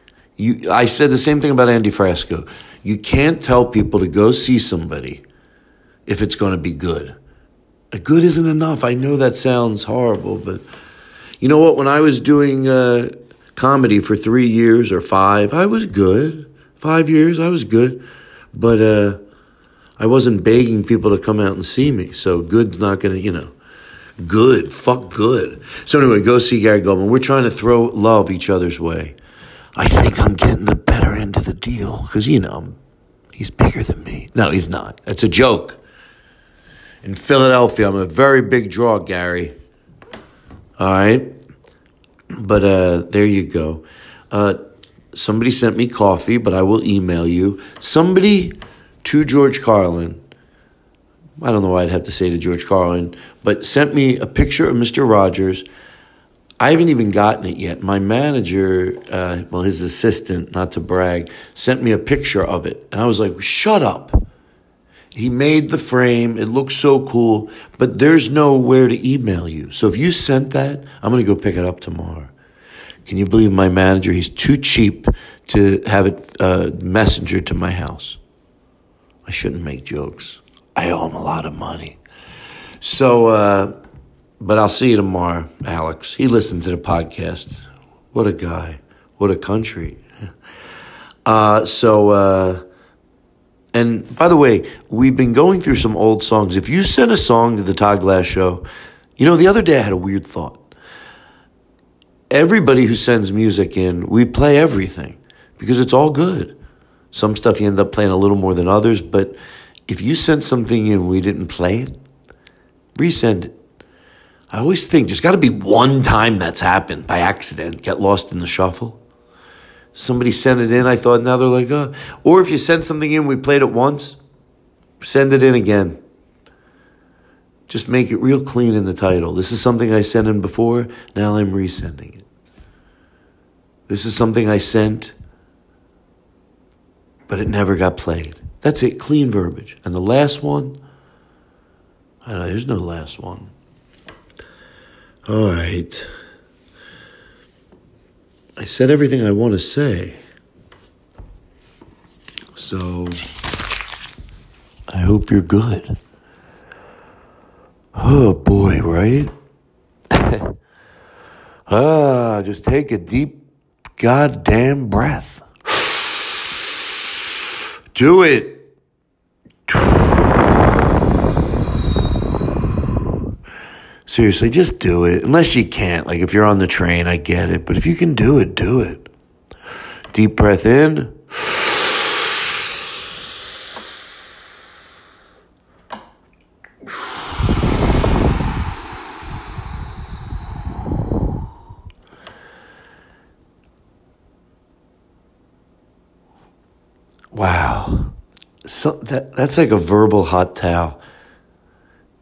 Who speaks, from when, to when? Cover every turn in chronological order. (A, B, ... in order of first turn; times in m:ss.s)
0:00.4-0:05.2 A
0:06.0-0:07.2 A
0:07.9-0:10.6 A
0:11.4-0:19.2 A
0:20.0-0:23.5 A
0:24.2-0:29.2 A
0:29.8-0:32.8 A
0:33.3-0:35.8 A
0:37.0-0:39.5 A
0:40.8-0:41.3 A
0:42.3-0:44.6 A
0:45.1-0:50.2 A
0:51.4-0:55.6 A
0:56.6-1:04.2 A
1:05.1-1:12.3 A
1:13.0-1:18.2 A
1:19.2-1:22.0 A
1:22.8-1:23.8 A
1:24.4-1:30.0 A
1:31.2-1:32.6 A
1:33.7-1:38.6 A
1:39.2-1:40.7 A
1:42.3-1:46.5 A
1:47.1-1:51.9 A
1:52.9-1:53.5 A
1:54.5-1:59.0 A
1:59.9-2:04.2 A
2:05.0-2:06.0 A
2:07.7-2:12.2 A
2:13.9-2:15.1 A
2:17.3-2:20.8 A
2:22.2-2:23.5 A
2:25.2-2:26.1 A
2:28.6-2:30.2 A
2:32.5-2:33.3 A
2:34.9-2:36.0 A
2:37.9-2:39.3 A
2:40.1-2:40.5 A
2:41.7-2:43.4 A
2:44.0-2:46.0 A
2:47.9-2:48.7 A
2:49.7-2:50.4 A
2:54.1-2:59.1 A
3:00.1-3:01.7 A
3:17.3-3:21.0 A